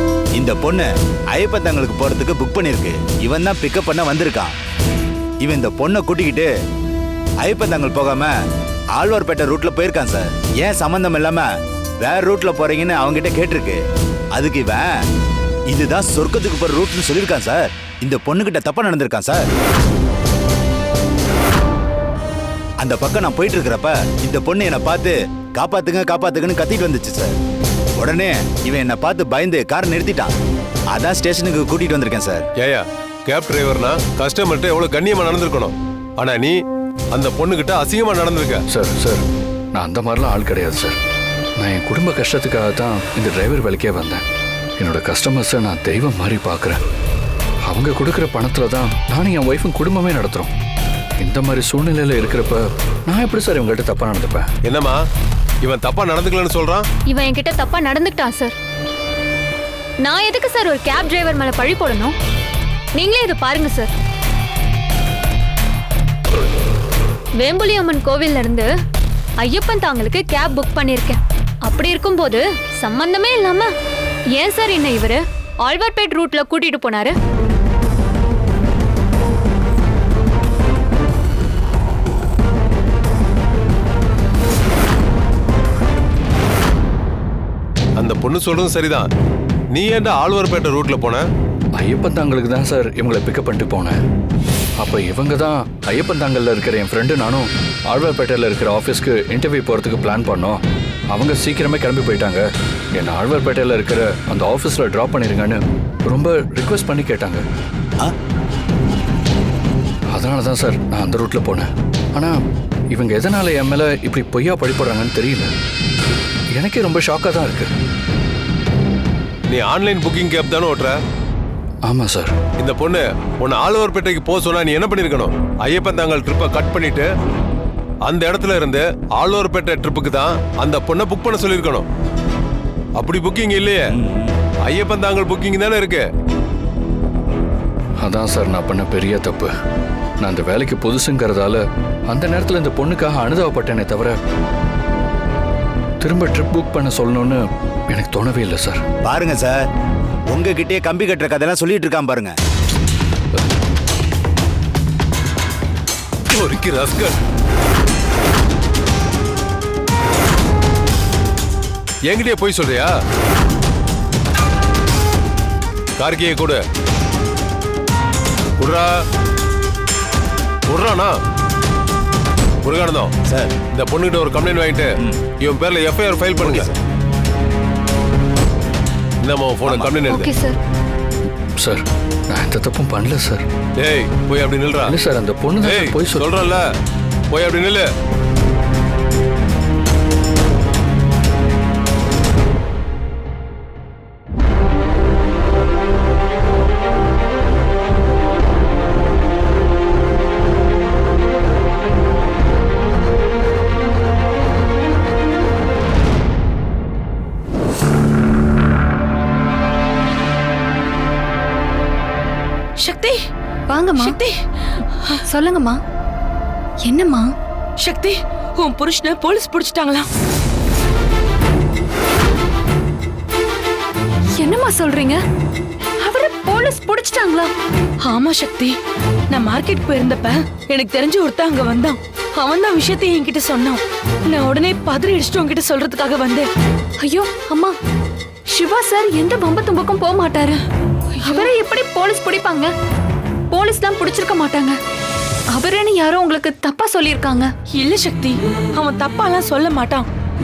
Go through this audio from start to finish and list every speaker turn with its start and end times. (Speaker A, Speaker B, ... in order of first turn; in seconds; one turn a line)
Speaker A: 0.3-4.5
Speaker A: 5.4-6.5
Speaker A: 7.4-8.3
Speaker A: 8.9-11.4
Speaker A: 12.0-13.8
Speaker A: 14.3-14.9
Speaker A: 15.7-19.4
Speaker A: 22.8-27.4
Speaker A: 28.0-30.3
Speaker A: 30.9-32.5
Speaker B: 32.6-36.5
Speaker B: 37.1-38.6
Speaker C: 38.7-39.2
Speaker C: 39.7-41.0
Speaker C: 41.6-44.2
Speaker C: 44.8-46.8
Speaker C: 47.6-50.5
Speaker C: 51.2-54.5
Speaker B: 54.6-55.0
Speaker B: 55.6-56.9
Speaker D: 57.1-58.5
Speaker D: 60.0-62.1
Speaker D: 62.9-63.9
Speaker D: 67.4-68.7
Speaker D: 69.4-73.7
Speaker D: 74.3-77.1
Speaker B: 88.0-89.1
Speaker B: 89.7-91.2
Speaker C: 91.8-94.0
Speaker C: 94.8-100.6
Speaker C: 101.1-107.4
Speaker C: 110.1-112.4
Speaker C: 112.9-115.5
Speaker C: 116.5-117.7
Speaker B: 119.5-121.0
Speaker C: 121.8-122.3
Speaker B: 122.6-127.1
Speaker B: 128.0-131.8
Speaker B: 133.0-133.9
Speaker A: 133.9-134.4
Speaker B: 134.7-136.1
Speaker C: 138.0-139.5
Speaker C: 140.2-144.2
Speaker C: 146.0-148.8
Speaker A: 149.0-149.6
Speaker A: 150.3-152.3
Speaker B: 156.3-157.2
Speaker B: 162.1-162.9
Speaker B: 166.0-166.6
Speaker B: 168.6-168.9
Speaker B: 170.7-171.2
Speaker B: 172.6-173.1
Speaker A: 173.3-173.6
Speaker B: 173.7-174.9
Speaker B: 175.4-176.7
Speaker A: 176.4-176.8
Speaker B: 179.2-180.3
Speaker A: 179.7-179.9
Speaker D: 180.1-180.6
Speaker C: 181.6-183.4
Speaker B: 183.8-185.0
Speaker C: 184.8-186.2
Speaker B: 185.6-186.6
Speaker B: 187.3-187.9
Speaker E: 212.8-213.2
Speaker F: 213.7-214.2
Speaker E: 214.0-214.4
Speaker F: 215.3-215.8
Speaker F: 216.8-217.3
Speaker E: 217.8-220.1
Speaker F: 224.4-225.2
Speaker F: 226.0-227.5
Speaker E: 228.0-228.7
Speaker E: 229.3-236.5
Speaker F: 237.0-237.7
Speaker F: 238.5-240.6
Speaker E: 241.1-241.5
Speaker F: 241.2-242.7
Speaker F: 243.5-244.8
Speaker F: 245.5-247.5
Speaker E: 247.7-250.1